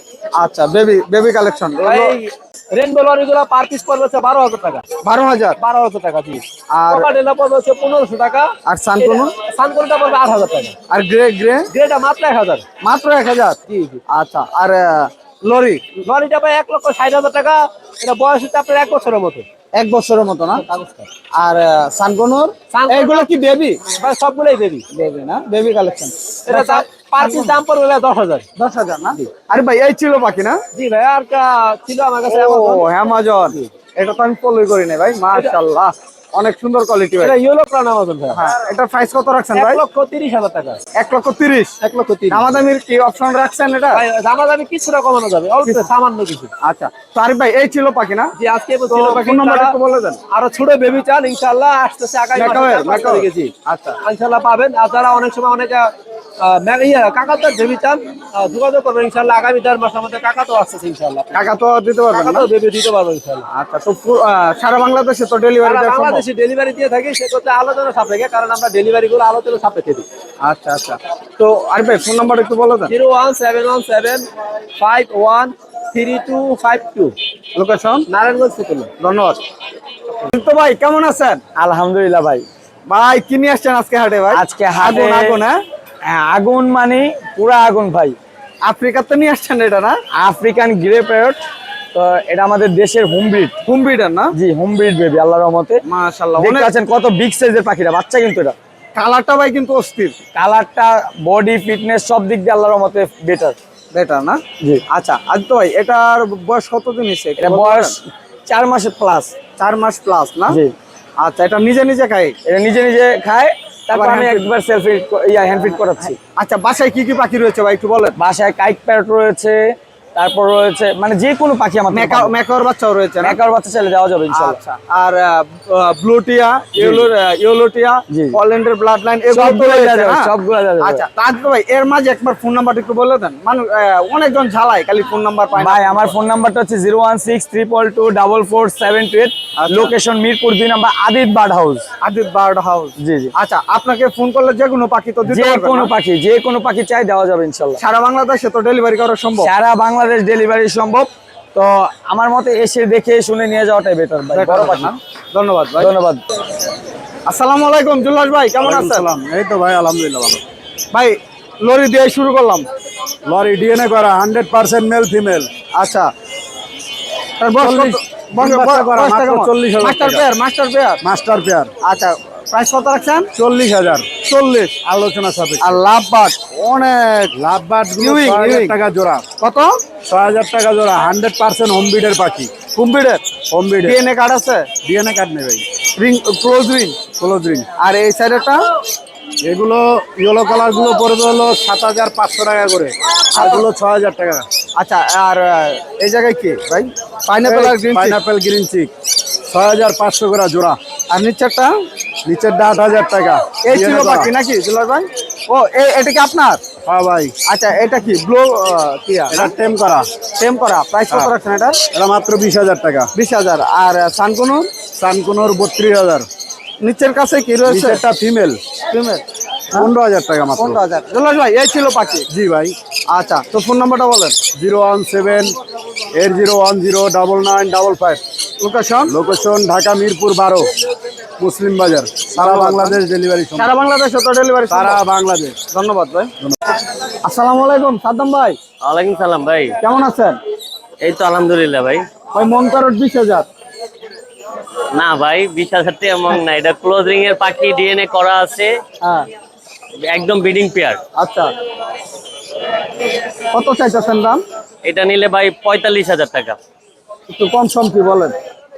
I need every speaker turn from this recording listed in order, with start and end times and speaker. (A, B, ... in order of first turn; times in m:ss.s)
0:00.4-0:02.2 A
0:01.8-0:04.8 B
0:05.0-0:05.6 A
0:05.6-0:10.8 B
0:06.7-0:07.1 A
0:08.7-0:09.3 A
0:10.9-0:11.7 A
0:11.7-0:12.7 B
0:12.8-0:16.0 A
0:13.7-0:14.0 B
0:16.0-0:19.5 B
0:19.8-0:20.6 A
0:20.5-0:21.1 B
0:21.4-0:23.8 A
0:22.7-0:24.9 B
0:24.9-0:27.6 A
0:26.5-0:28.5 B
0:28.6-0:30.6 A
0:30.7-0:32.9 B
0:32.2-0:37.4 A
0:37.2-0:38.4 B
0:38.3-0:39.8 A
0:39.5-0:40.8 B
0:41.0-0:41.8 A
0:41.8-0:42.7 B
0:42.3-0:44.0 A
0:43.9-0:46.5 B
0:46.6-0:48.3 A
0:48.4-0:49.8 B
0:48.9-0:50.2 A
0:50.3-1:01.4 B
0:52.4-0:54.0 A
1:01.3-1:02.5 A
1:02.1-1:03.5 B
1:03.5-1:06.2 A
1:05.6-1:10.1 B
1:10.4-1:12.9 A
1:12.9-1:17.2 B
1:17.6-1:18.1 A
1:18.1-1:18.9 B
1:19.0-1:19.4 A
1:20.3-1:21.4 A
1:21.6-1:22.5 C
1:22.9-1:25.6 A
1:24.3-1:25.4 C
1:26.0-1:28.2 C
1:28.6-1:30.0 A
1:30.1-1:31.4 C
1:31.9-1:33.6 C
1:33.7-1:34.3 A
1:34.3-1:35.8 C
1:35.8-1:36.7 A
1:36.4-1:38.6 C
1:38.9-1:40.2 A
1:40.3-1:43.6 C
1:43.9-1:47.9 A
1:47.4-1:49.3 C
1:49.6-1:50.6 A
1:50.5-1:50.7 C
1:51.2-1:52.4 A
1:52.4-1:56.2 C
1:53.9-1:54.4 A
1:56.4-1:58.2 A
1:58.2-1:59.6 C
2:00.2-2:02.4 C
2:01.9-2:03.4 A
2:03.2-2:04.6 C
2:04.3-2:16.2 A
2:06.8-2:07.1 C
2:08.1-2:08.4 C
2:09.3-2:11.0 C
2:15.6-2:21.9 C
2:19.6-2:19.9 A
2:22.0-2:25.9 A
2:23.0-2:23.3 C
2:25.2-2:27.8 C
2:27.8-2:29.5 A
2:29.4-2:35.0 C
2:34.3-2:35.9 A
2:35.8-2:36.2 C
2:37.3-2:39.0 A
2:38.6-2:40.4 D
2:40.9-2:42.7 A
2:43.2-2:45.5 D
2:45.8-2:46.1 A
2:47.4-2:51.0 A
2:47.6-2:50.2 D
2:51.0-2:51.7 D
2:51.8-2:53.3 A
2:53.4-2:55.8 D
2:55.6-2:57.3 A
2:57.3-2:59.2 D
2:58.0-2:58.8 A
2:59.4-2:59.7 A
3:00.0-3:02.6 D
3:02.7-3:03.2 A
3:03.4-3:04.0 D
3:03.8-3:04.7 A
3:04.8-3:05.6 D
3:06.0-3:07.0 A
3:07.1-3:07.7 D
3:07.8-3:08.6 A
3:09.4-3:14.5 D
3:13.3-3:13.6 A
3:14.8-3:18.2 A
3:17.4-3:18.9 D
3:19.5-3:20.8 D
3:21.1-3:21.7 A
3:22.2-3:24.3 D
3:23.6-3:26.6 A
3:26.8-3:27.3 D
3:27.5-3:29.5 A
3:29.3-3:30.1 D
3:30.4-3:31.8 A
3:31.9-3:33.1 D
3:33.2-3:34.7 A
3:34.9-3:36.3 D
3:36.8-3:38.0 A
3:37.6-3:38.6 D
3:38.9-3:39.2 A
3:39.8-3:40.8 D
3:40.6-3:42.3 A
3:42.3-3:42.8 D
3:43.1-3:44.4 A
3:44.5-3:45.6 D
3:46.1-3:48.2 D
3:48.6-3:49.2 A
3:49.1-3:50.7 D
3:51.4-3:53.7 D
3:52.3-3:53.0 A
3:53.6-3:55.0 A
3:54.7-3:55.6 D
3:55.7-3:56.3 A
3:57.2-3:58.6 A
3:58.8-3:59.8 E
3:59.8-4:00.4 A
4:01.0-4:02.0 E
4:02.3-4:03.5 A
4:04.9-4:08.7 E
4:10.1-4:11.0 E
4:11.2-4:11.5 A
4:13.5-4:14.4 A
4:14.8-4:16.6 E
4:17.3-4:18.4 A